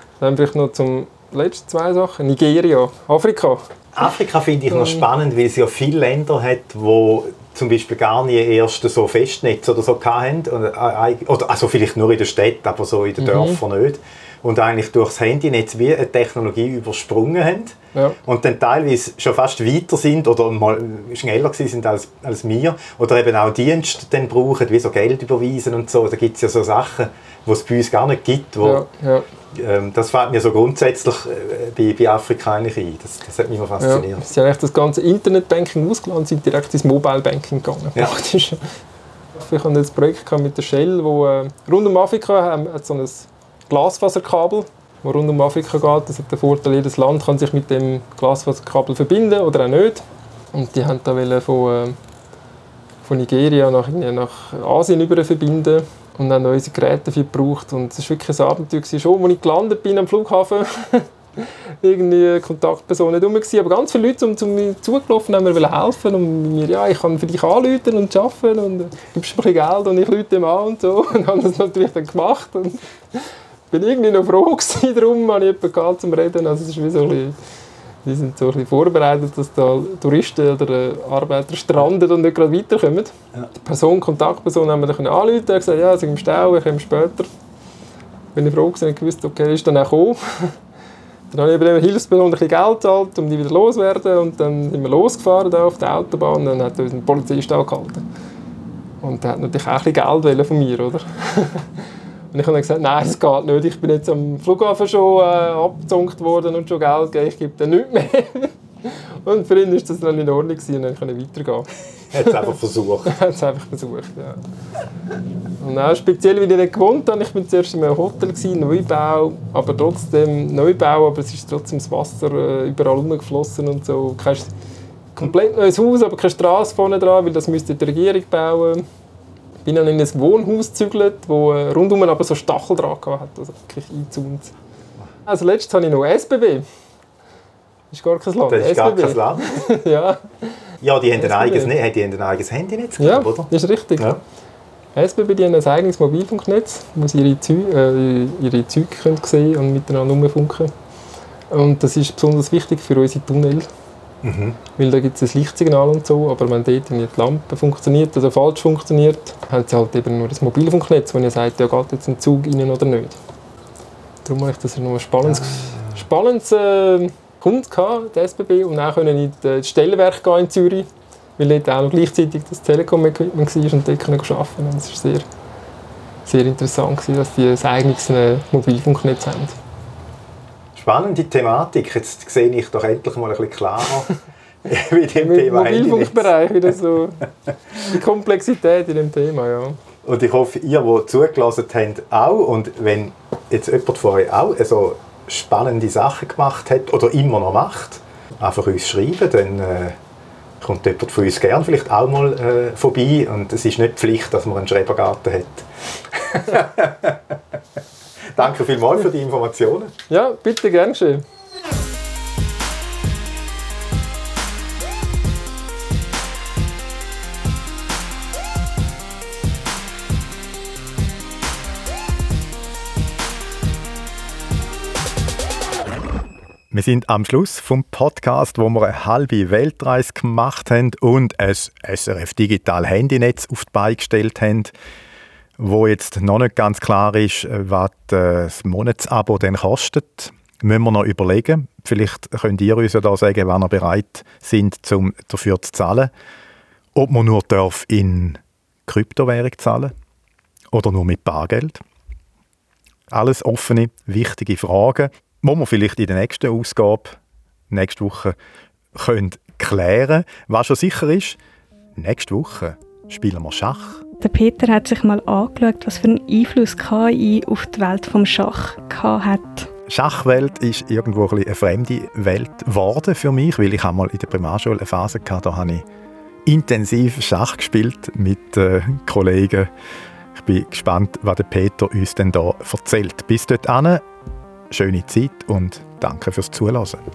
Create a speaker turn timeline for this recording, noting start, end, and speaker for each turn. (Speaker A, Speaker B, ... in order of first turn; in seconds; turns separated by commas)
Speaker A: 0.2-3.7, Speaker B: 3.9-28.9, Speaker A: 4.7-5.0, Speaker A: 13.2-13.6, Speaker A: 28.6-29.2, Speaker B: 29.5-34.2, Speaker A: 33.8-38.6, Speaker A: 39.3-52.0, Speaker A: 53.0-77.3, Speaker A: 78.0-87.3, Speaker A: 88.3-90.5, Speaker A: 91.3-98.0, Speaker A: 99.0-101.7, Speaker A: 102.3-111.7, Speaker B: 112.1-113.2, Speaker A: 113.0-114.4, Speaker A: 115.6-124.5, Speaker A: 125.1-128.8, Speaker A: 129.6-134.5, Speaker A: 135.3-136.7, Speaker A: 137.9-141.7, Speaker B: 138.5-139.6, Speaker B: 140.8-144.2, Speaker A: 143.0-144.2, Speaker A: 144.9-150.7, Speaker A: 151.5-153.7, Speaker B: 154.2-154.6, Speaker A: 154.8-163.2, Speaker A: 164.2-175.3, Speaker B: 165.2-166.0, Speaker A: 176.2-179.6, Speaker B: 180.7-184.1, Speaker B: 184.6-186.3, Speaker A: 185.1-187.2, Speaker A: 187.8-189.8, Speaker B: 190.0-200.0, Speaker B: 200.6-207.4, Speaker B: 208.3-209.9, Speaker A: 210.1-211.2, Speaker B: 226.7-234.7, Speaker B: 235.6-246.1, Speaker B: 246.9-249.9, Speaker B: 250.7-251.8, Speaker B: 253.1-257.2, Speaker B: 257.7-258.4, Speaker B: 258.9-261.4, Speaker B: 261.9-264.0, Speaker C: 264.2-269.7, Speaker B: 269.9-275.8, Speaker B: 276.4-279.7, Speaker B: 280.3-284.0, Speaker B: 284.7-287.0